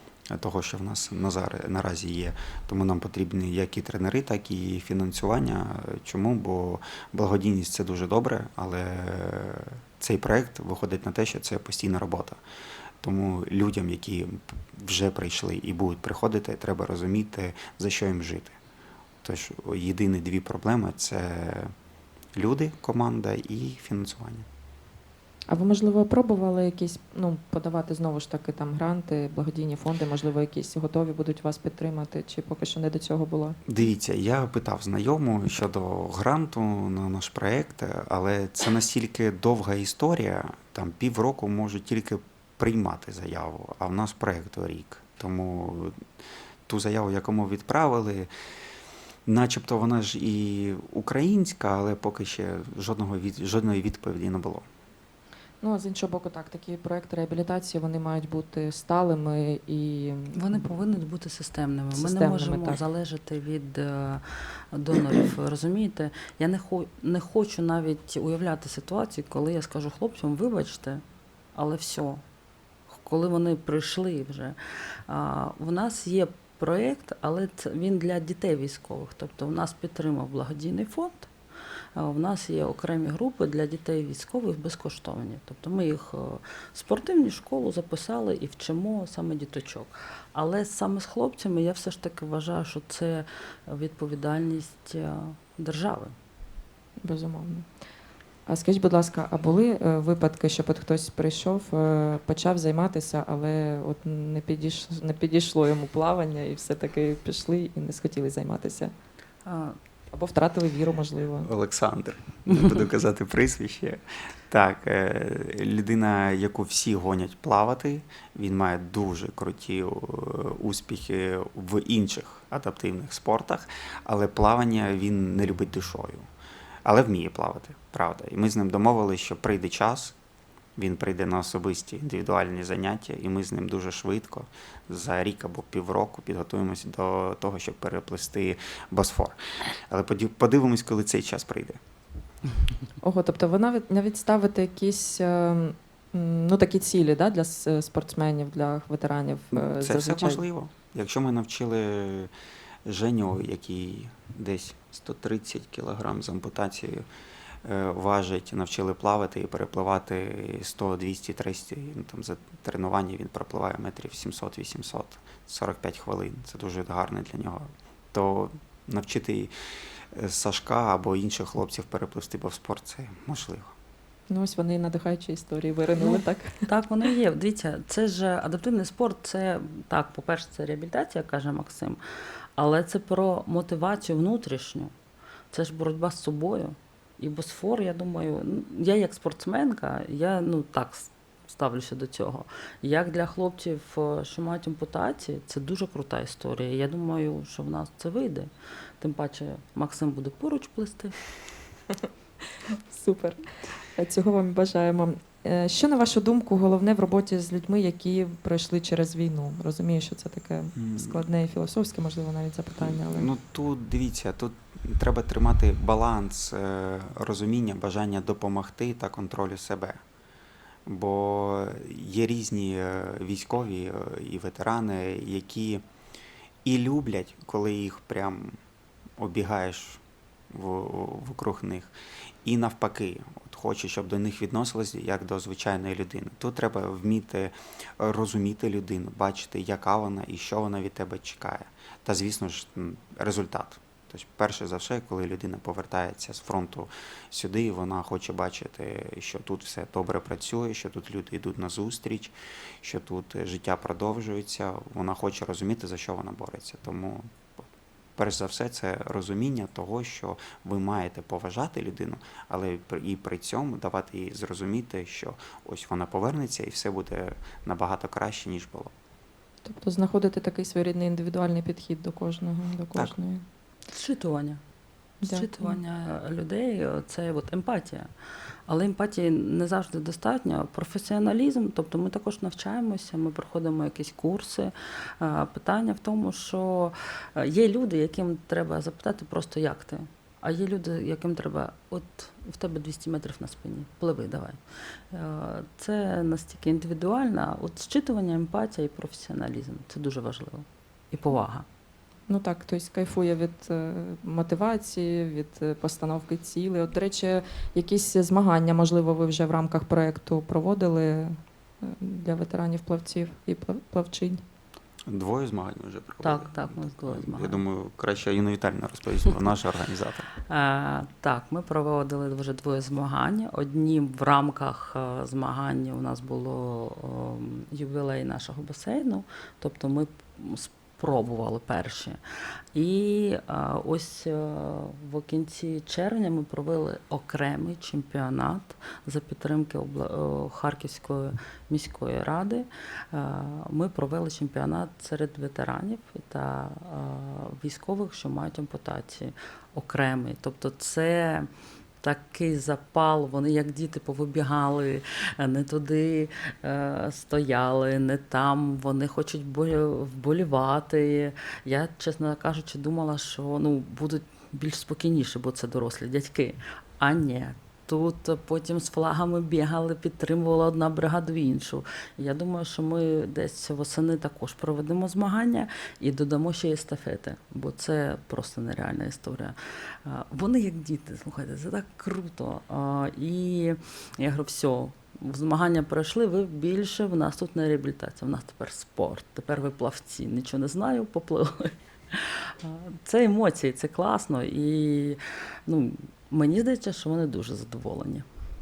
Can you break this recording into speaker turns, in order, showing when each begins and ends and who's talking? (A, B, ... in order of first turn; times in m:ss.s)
0:00.3-0:12.4 A
0:13.0-0:18.6 A
0:19.2-0:21.7 A
0:22.4-0:24.5 A
0:25.5-0:33.6 B
0:33.7-0:46.0 A
0:46.7-0:48.3 A
0:49.3-0:54.7 A
0:55.6-1:00.6 B
1:00.4-1:11.0 C
1:01.9-1:02.8 B
1:11.6-1:12.2 C
1:12.9-1:14.6 C
1:15.1-1:21.3 C
1:22.0-1:36.2 C
1:37.0-1:37.7 B
1:38.5-1:48.9 B
1:49.4-1:49.8 C
1:50.1-1:51.5 B
1:51.4-2:06.3 A
1:52.5-1:52.8 C
2:06.8-2:10.2 A
2:10.8-2:21.8 A
2:23.0-2:30.4 B
2:29.5-2:32.3 A
2:32.8-2:37.1 A
2:37.6-2:49.5 A
2:50.1-2:53.7 A
2:54.3-2:56.7 B
2:56.0-3:02.0 C
3:02.6-3:04.9 C
3:05.5-3:21.2 C
3:22.9-3:23.4 B
3:24.0-3:33.3 B
3:30.8-3:31.2 A
3:32.8-3:40.0 A
3:40.9-3:45.8 A
3:46.6-3:48.6 A
3:49.2-3:51.9 A
3:52.4-4:28.9 A
4:29.6-4:33.4 B
4:33.9-4:34.6 C
4:35.2-4:35.8 B
4:35.2-4:38.1 C
4:38.7-4:54.6 C
4:55.1-5:01.7 C
5:02.3-5:14.4 B
5:15.1-5:20.3 A
5:16.2-5:17.6 C
5:20.5-5:32.2 C
5:32.7-5:51.5 C
5:52.0-6:38.3 C